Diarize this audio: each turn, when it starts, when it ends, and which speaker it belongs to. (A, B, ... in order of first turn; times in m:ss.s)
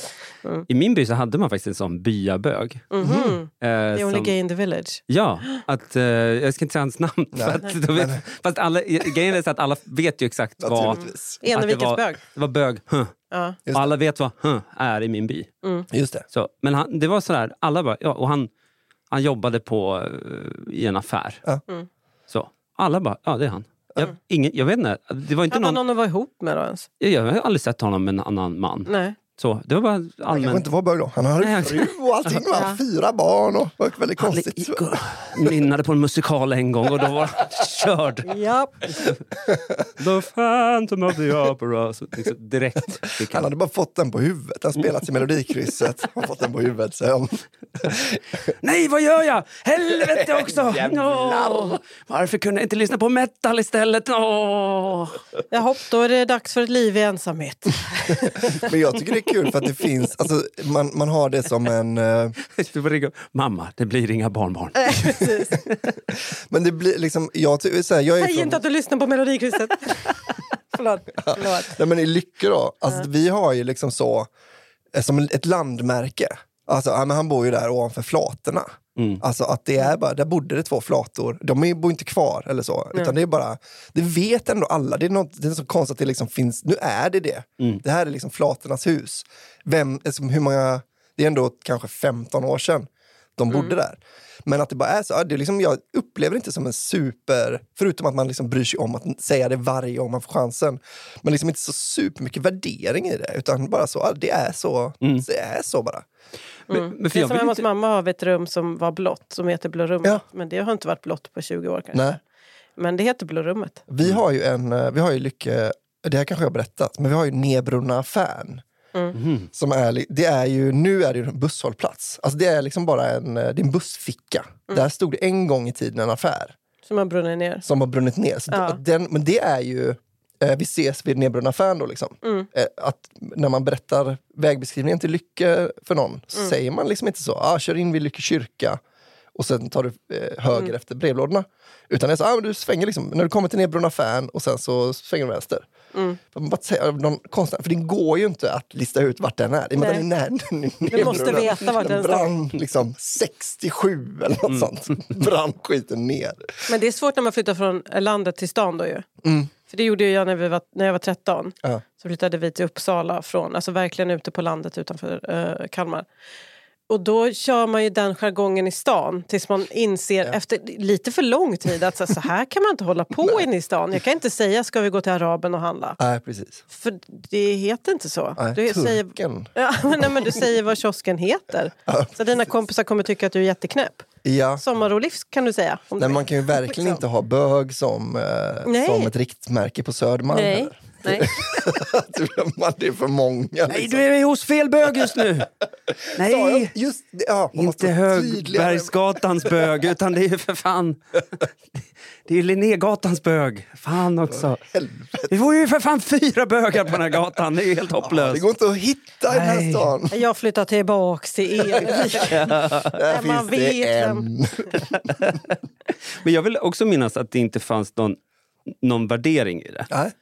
0:00.7-0:02.9 A
0:02.9-0:05.0 B
0:03.0-0:03.4 C
0:03.6-0:04.3 A
0:05.1-0:13.1 A
0:07.3-0:08.2 C
0:10.6-0:11.4 C
0:10.8-0:12.2 B
0:13.3-0:13.6 B
0:13.7-0:13.9 C
0:13.7-0:15.5 A
0:15.6-0:15.9 B
0:15.9-0:16.2 C
0:16.3-0:18.5 A
0:19.1-0:21.4 A
0:22.3-0:25.8 A
0:25.5-0:26.9 B
0:27.0-0:30.6 A
0:28.9-0:29.2 B
0:30.3-0:34.9 C
0:31.4-0:32.4 A
0:32.5-0:32.8 B
0:34.2-0:38.3 A
0:38.2-0:39.0 B
0:40.0-0:43.5 A
0:43.3-0:48.2 C
0:48.6-0:55.2 A
0:55.5-0:58.6 B
0:58.6-1:02.4 C
1:02.5-1:05.7 A
1:04.8-1:05.5 B
1:06.1-1:08.6 C
1:08.2-1:10.2 B
1:10.7-1:11.8 B
1:11.2-1:14.3 C
1:14.9-1:46.0 C
1:19.0-1:19.2 A
1:33.5-1:33.7 B
1:46.7-1:47.6 A
1:46.7-1:52.0 B
1:51.9-1:52.2 C
1:52.8-1:53.8 B
1:53.9-1:58.6 C
1:59.1-1:59.5 A
1:59.5-2:06.6 C
2:06.8-2:07.6 B
2:07.6-2:18.8 C
2:08.5-2:08.8 B
2:12.2-2:12.5 B
2:19.3-2:25.7 C
2:25.9-2:26.2 B
2:26.3-2:36.7 C
2:29.8-2:30.1 B
2:30.9-2:32.3 B
2:31.0-2:31.4 A
2:36.7-2:39.0 B
2:39.2-2:39.5 C
2:39.6-2:46.1 B
2:46.9-2:56.0 B
2:56.0-2:56.6 C
2:56.7-3:04.1 B
2:58.4-3:00.3 C
3:01.9-3:02.4 C
3:04.2-3:04.6 C
3:04.6-3:07.0 B
3:06.0-3:14.0 C
3:08.6-3:09.1 B
3:10.3-3:11.3 B
3:13.7-3:15.5 A
3:16.1-3:16.7 A
3:16.2-3:19.7 C
3:17.5-3:21.4 A
3:22.2-3:24.6 A
3:24.3-3:25.4 C
3:25.3-3:28.4 A
3:28.0-3:30.2 C
3:29.3-3:29.9 A
3:30.1-3:34.3 B
3:31.8-3:34.9 C
3:32.3-3:33.0 A
3:34.7-3:35.6 A
3:36.2-3:38.2 A
3:38.8-3:39.9 A